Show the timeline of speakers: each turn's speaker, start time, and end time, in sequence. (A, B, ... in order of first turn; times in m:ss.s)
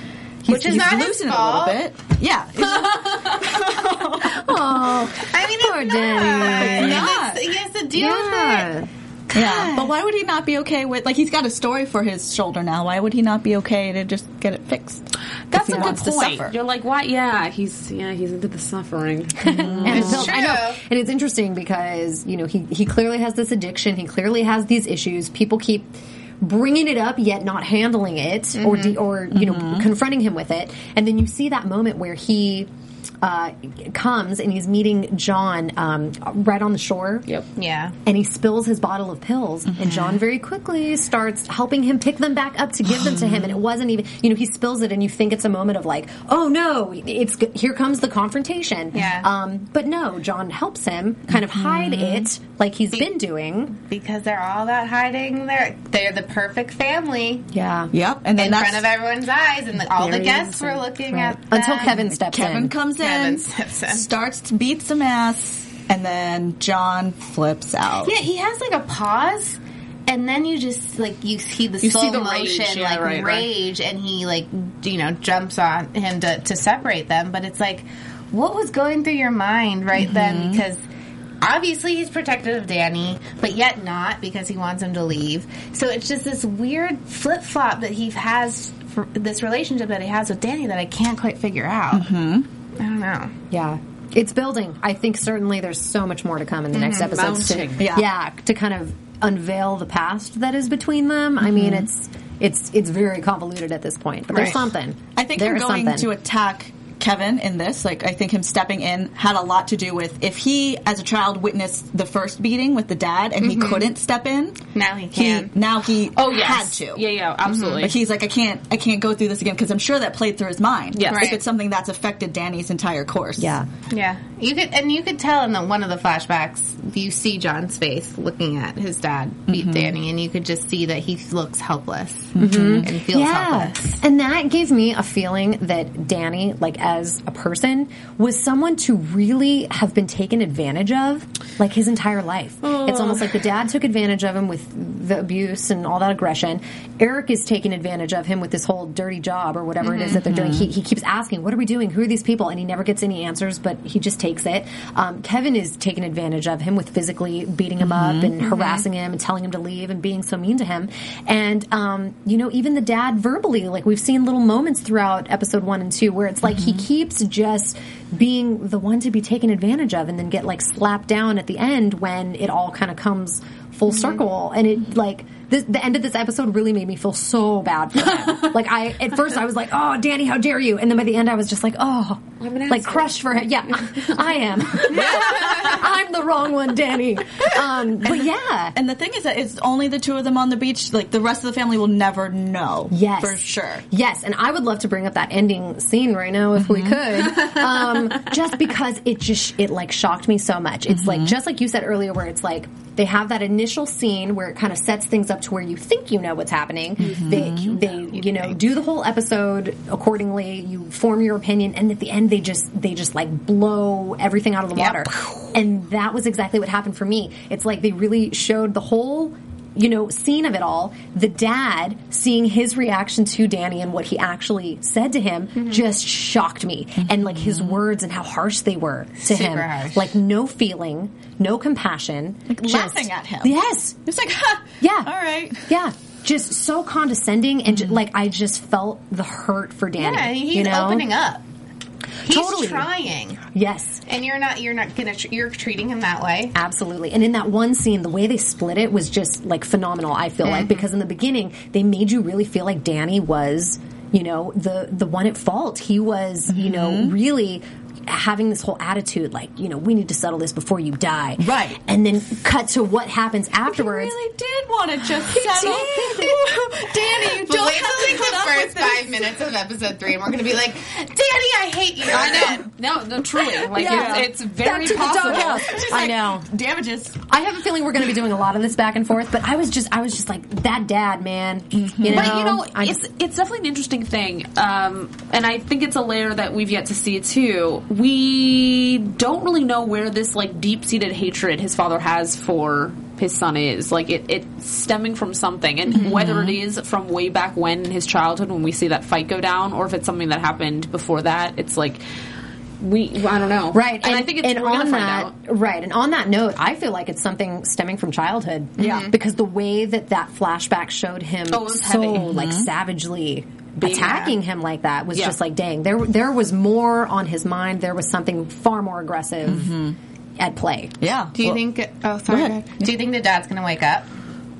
0:00.4-0:04.8 A
0:00.4-0:01.8 B
0:03.0-0:03.4 C
0:03.8-0:07.2 D
0:05.2-0:08.7 B
0:06.4-0:07.4 A
0:07.9-0:09.9 D
0:09.3-0:15.0 A
0:15.5-0:20.2 C
0:15.6-0:16.5 A
0:15.6-0:16.0 D
0:19.4-0:25.9 D
0:19.5-0:20.3 A
0:19.8-0:20.8 B
0:26.4-0:32.7 D
0:28.6-0:29.0 B
0:29.3-0:29.8 A
0:33.2-0:37.2 D
0:37.6-0:37.9 B
0:38.0-0:53.8 D
0:39.7-0:40.2 A
0:42.9-0:43.5 A
0:48.9-0:49.3 B
0:51.3-0:52.3 A
0:53.8-0:57.4 B
0:57.5-0:57.9 D
0:57.9-0:58.8 A
0:58.4-1:02.0 B
1:00.0-1:00.8 C
1:01.1-1:02.7 D
1:02.1-1:08.1 A
1:03.0-1:04.0 B
1:08.0-1:20.8 B
1:11.8-1:13.5 C
1:20.0-1:20.6 A
1:21.4-1:32.1 B
1:31.9-1:32.5 A
1:32.8-1:33.3 B
1:33.5-1:46.1 D
1:36.7-1:37.1 B
1:37.0-1:37.9 C
1:37.8-1:38.1 A
1:41.4-1:41.9 A
1:44.3-1:44.6 B
1:45.1-1:54.6 A
1:53.4-1:53.9 B
1:54.7-1:55.5 B
1:55.1-1:57.0 A
1:56.2-1:57.9 C
1:57.5-1:57.8 B
1:57.8-2:03.6 A
2:00.9-2:01.3 C
2:01.1-2:01.4 B
2:03.4-2:03.7 D
2:03.9-2:14.0 B
2:09.5-2:09.9 A
2:12.3-2:12.9 A
2:12.4-3:08.8 D
2:30.0-2:30.7 A
2:37.8-2:38.4 A
3:02.4-3:04.2 C
3:04.9-3:05.7 A
3:08.0-3:13.8 A
3:12.9-3:54.0 D
3:16.6-3:17.0 A
3:20.9-3:21.3 A
3:27.0-3:27.7 A
3:28.2-3:28.5 B
3:34.8-3:35.4 B
3:47.0-3:47.8 A
3:49.2-3:50.1 B
3:52.5-3:55.7 A
3:54.8-3:55.1 D
3:55.6-4:01.0 D
3:57.7-3:58.0 A
4:00.0-4:01.4 B
4:02.2-4:02.9 D
4:02.2-4:03.4 B
4:03.5-4:04.0 D
4:04.0-4:06.5 B
4:06.5-4:24.1 D
4:10.4-4:10.8 B
4:16.5-4:17.2 A
4:21.4-4:21.8 A
4:23.7-4:29.1 A
4:25.3-4:26.4 D
4:27.0-4:32.7 B
4:32.1-4:35.8 C
4:33.7-4:37.2 A
4:33.7-4:36.5 D
4:37.3-4:43.0 D
4:41.7-4:42.4 A
4:42.1-5:02.0 C
4:56.0-4:56.5 A
5:02.8-5:05.3 C
5:03.7-5:19.7 D
5:08.8-5:09.1 B
5:08.8-5:09.1 A
5:11.5-5:12.3 C
5:12.2-5:12.7 A
5:13.8-5:14.3 C
5:13.9-5:14.3 B
5:19.4-5:20.0 A
5:20.4-5:20.9 D
5:21.0-5:21.6 A
5:21.3-5:24.0 B
5:22.3-5:22.9 A